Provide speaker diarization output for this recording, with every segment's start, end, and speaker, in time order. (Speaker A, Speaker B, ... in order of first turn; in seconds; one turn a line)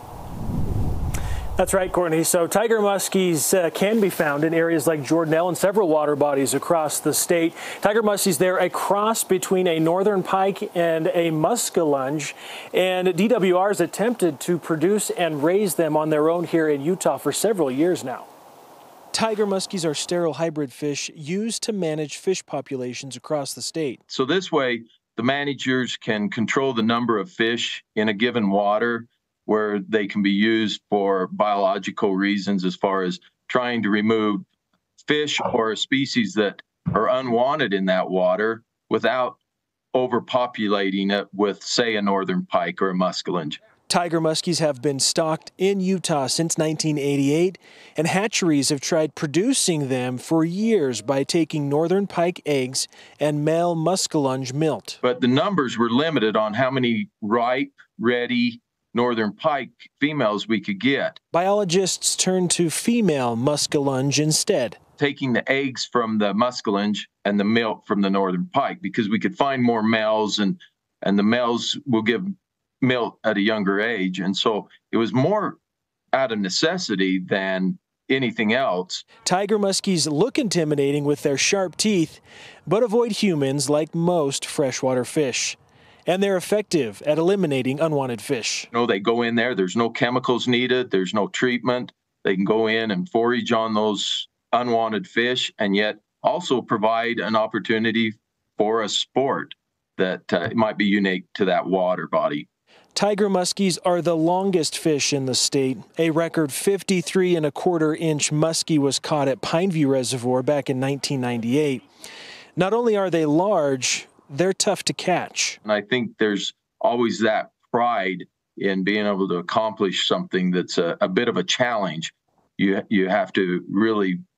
Speaker A: 1.6-18.3
Speaker A: 19.1-24.0
Speaker B: 24.1-34.5
Speaker B: 35.0-39.4
Speaker B: 39.9-43.6
Speaker A: 43.9-55.0
Speaker B: 55.0-61.2
Speaker A: 61.3-64.8
Speaker B: 65.0-75.6
Speaker B: 76.1-79.0
Speaker A: 79.2-88.7
Speaker B: 88.7-102.5
Speaker A: 103.0-111.8
Speaker A: 112.6-115.6
Speaker B: 115.6-124.2